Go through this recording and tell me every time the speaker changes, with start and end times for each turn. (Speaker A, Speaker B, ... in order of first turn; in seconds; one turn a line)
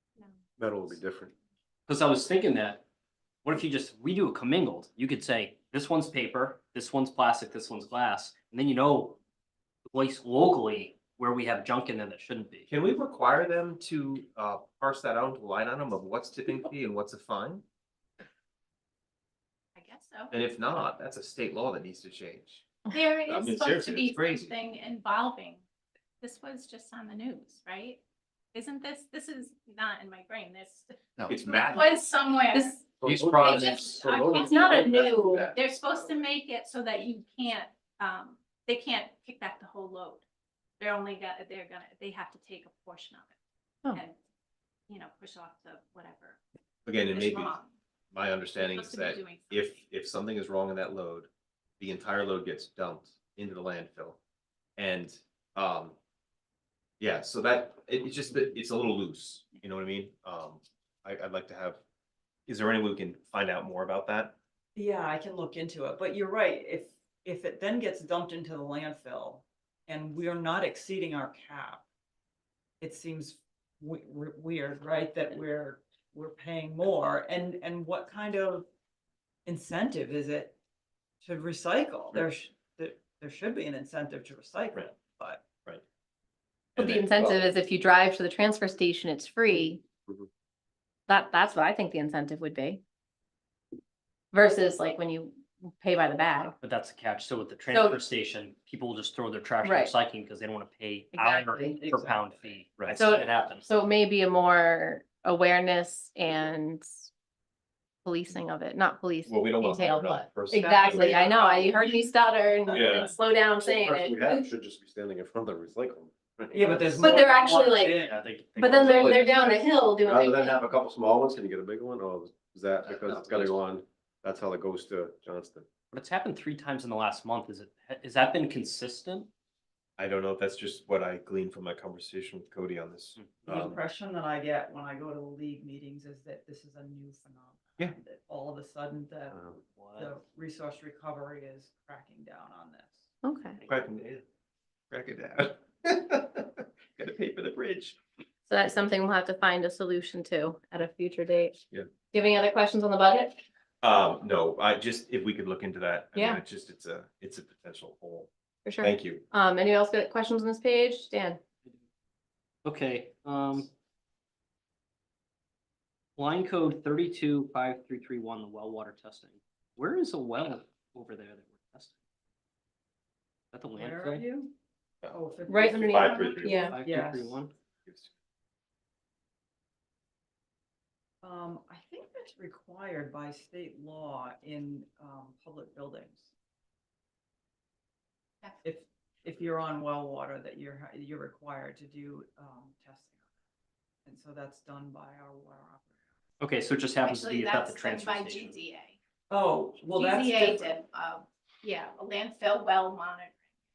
Speaker A: 0.6-1.3
Speaker B: 1.9-2.9
Speaker B: 3.4-9.2
Speaker B: 9.9-12.7
Speaker C: 12.7-17.6
Speaker D: 19.8-20.3
Speaker C: 20.3-22.7
Speaker D: 22.9-25.6
Speaker C: 23.3-24.5
Speaker D: 26.2-28.0
Speaker D: 28.5-40.2
Speaker C: 31.3-31.9
Speaker E: 32.5-33.7
Speaker A: 33.0-34.5
Speaker B: 33.0-33.7
Speaker E: 34.5-35.5
Speaker C: 34.8-35.5
Speaker D: 40.8-43.4
Speaker D: 44.9-46.4
Speaker C: 46.9-47.6
Speaker D: 46.9-47.7
Speaker C: 48.1-54.2
Speaker D: 48.5-49.8
Speaker C: 54.8-56.0
Speaker C: 57.0-61.8
Speaker C: 62.5-64.3
Speaker F: 64.7-71.8
Speaker F: 72.8-78.7
Speaker F: 79.4-80.5
Speaker F: 81.2-85.5
Speaker C: 84.7-85.0
Speaker C: 86.8-87.4
Speaker E: 86.8-89.8
Speaker E: 91.1-92.8
Speaker E: 94.3-96.5
Speaker B: 96.6-103.7
Speaker E: 97.7-98.0
Speaker E: 99.6-99.9
Speaker F: 101.2-102.6
Speaker E: 101.2-101.8
Speaker E: 102.9-107.0
Speaker E: 108.0-114.5
Speaker C: 109.2-111.7
Speaker F: 110.6-112.0
Speaker C: 112.7-113.1
Speaker A: 113.8-116.9
Speaker F: 116.5-118.2
Speaker E: 117.0-120.6
Speaker B: 117.9-119.6
Speaker A: 120.0-125.7
Speaker B: 122.8-123.6
Speaker B: 125.9-129.3
Speaker C: 130.0-133.2
Speaker F: 133.4-139.4
Speaker B: 139.7-140.1
Speaker F: 139.9-143.1
Speaker E: 143.2-143.6
Speaker C: 143.6-144.2
Speaker C: 144.9-148.0
Speaker E: 148.5-151.6
Speaker E: 152.1-153.4
Speaker C: 153.8-159.2
Speaker E: 156.2-156.4
Speaker E: 158.7-161.4
Speaker B: 162.7-163.7
Speaker B: 166.2-171.9
Speaker B: 173.5-174.2
Speaker F: 173.8-174.5
Speaker F: 175.1-177.4
Speaker E: 175.5-176.8
Speaker C: 175.8-176.8
Speaker B: 176.5-177.5
Speaker C: 177.8-178.1
Speaker F: 181.2-186.3
Speaker F: 188.6-193.2
Speaker F: 194.1-196.0
Speaker B: 196.4-198.6
Speaker D: 197.0-199.0
Speaker F: 199.3-200.7
Speaker D: 199.9-203.4